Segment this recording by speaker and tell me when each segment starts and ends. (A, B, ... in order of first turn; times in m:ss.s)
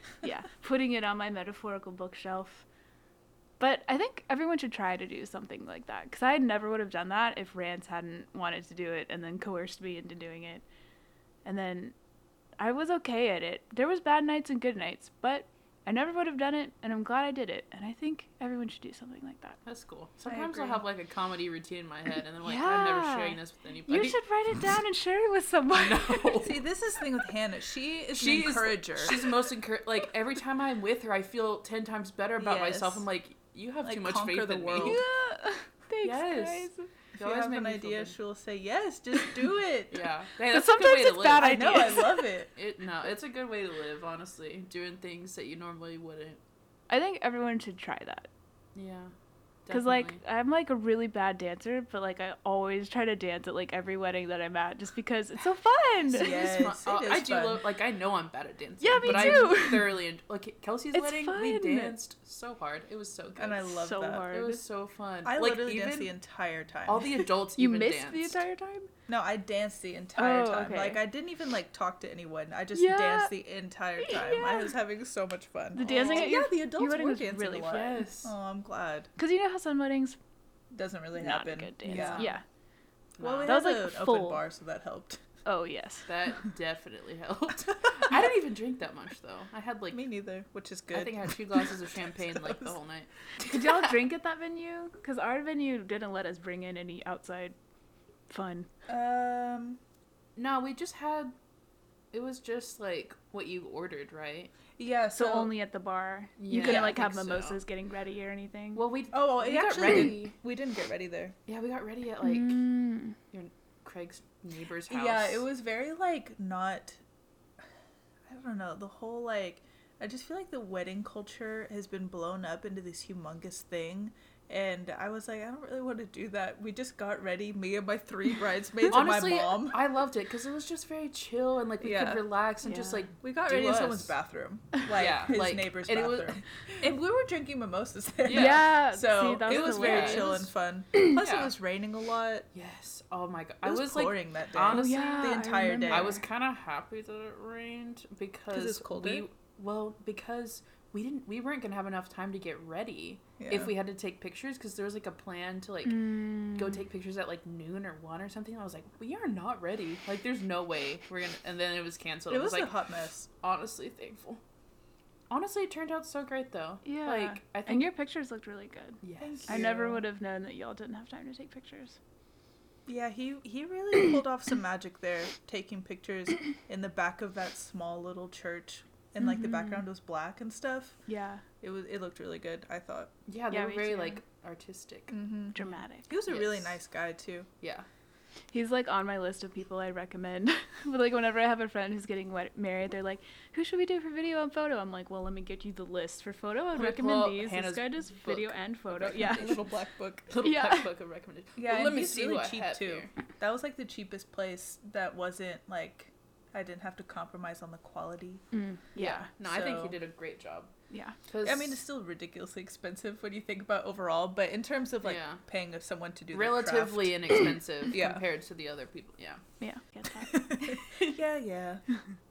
0:00.2-0:02.6 A
0:03.6-0:10.6 A
0:11.4-0:11.9 A
0:12.6-0:19.6 A
0:19.7-0:24.2 B
0:20.3-0:20.8 C
0:22.4-0:26.4 A
0:25.7-0:26.6 B
0:26.4-0:29.3 C
0:28.2-0:35.0 B
0:32.4-0:33.0 C
0:33.8-0:35.0 C
0:34.8-0:36.9 A
0:36.0-0:38.2 B
0:37.2-0:39.9 C
0:39.9-0:41.9 B
0:40.5-0:42.3 A
0:41.4-0:42.5 C
0:42.6-0:46.4 B
0:46.9-0:48.3 A
0:48.8-0:49.1 B
0:49.7-0:50.2 B
0:49.7-0:56.3 A
0:56.1-0:57.6 C
0:56.1-1:03.7 B
0:58.8-1:00.0 A
0:59.0-0:59.6 C
1:00.9-1:02.0 A
1:03.4-1:04.3 C
1:03.7-1:04.6 A
1:04.3-1:06.1 B
1:05.2-1:07.2 C
1:06.9-1:08.4 B
1:07.6-1:08.9 A
1:09.1-1:19.1 C
1:10.2-1:11.0 A
1:12.7-1:13.4 A
1:14.0-1:14.7 A
1:15.7-1:18.0 A
1:15.8-1:16.3 B
1:17.7-1:18.3 B
1:19.2-1:20.2 A
1:20.7-1:22.3 C
1:21.2-1:22.4 A
1:21.8-1:22.4 B
1:23.2-1:23.6 B
1:23.2-1:25.2 C
1:23.4-1:24.4 A
1:25.4-1:26.1 A
1:26.1-1:30.0 B
1:29.9-1:31.3 C
1:30.9-1:33.5 B
1:32.4-1:32.7 C
1:33.4-1:37.6 A
1:38.3-1:38.7 A
1:38.9-1:39.8 C
1:40.4-1:41.4 B
1:42.1-1:44.5 B
1:44.8-1:45.5 C
1:45.2-1:48.8 A
1:46.4-1:47.6 B
1:46.5-1:47.0 C
1:48.8-1:50.4 B
1:49.1-1:51.4 C
1:51.5-1:52.7 B
1:52.2-1:53.2 A
1:53.3-1:55.4 B
1:54.9-1:57.0 C
1:58.3-2:09.8 C
2:08.9-2:14.1 B
2:11.8-2:12.3 C
2:12.6-2:13.1 A
2:13.2-2:22.5 C
2:15.0-2:16.4 B
2:18.2-2:18.7 B
2:18.3-2:20.4 A
2:19.4-2:20.5 B
2:21.2-2:21.5 B
2:22.5-2:25.4 B
2:23.6-2:26.2 C
2:24.7-2:26.2 A
2:25.9-2:42.8 B
2:28.5-2:29.3 C
2:33.4-2:33.7 C
2:35.8-2:36.8 A
2:42.3-2:43.3 C
2:43.3-2:44.4 B
2:45.3-2:47.9 B
2:46.8-2:52.0 A
2:49.0-2:49.7 B
2:49.2-2:50.0 C
2:52.9-3:01.0 C
2:59.2-2:59.8 A
3:01.1-3:01.4 A
3:01.6-3:03.1 C
3:03.3-3:05.2 B
3:03.5-3:04.2 A
3:05.1-3:07.5 C
3:05.6-3:06.1 A
3:06.3-3:06.8 B
3:07.6-3:07.9 B
3:08.5-3:19.6 A
3:16.7-3:19.7 B
3:19.2-3:20.3 C
3:20.3-3:23.1 B
3:20.4-3:20.9 A
3:21.6-3:28.4 C
3:28.5-3:29.3 A
3:29.0-3:30.7 B
3:29.4-3:30.0 C
3:30.9-3:31.2 A
3:31.3-3:31.8 B
3:31.4-3:38.2 C
3:35.0-3:35.4 B
3:36.3-3:39.4 B
3:39.6-3:40.4 A
3:40.5-3:41.8 C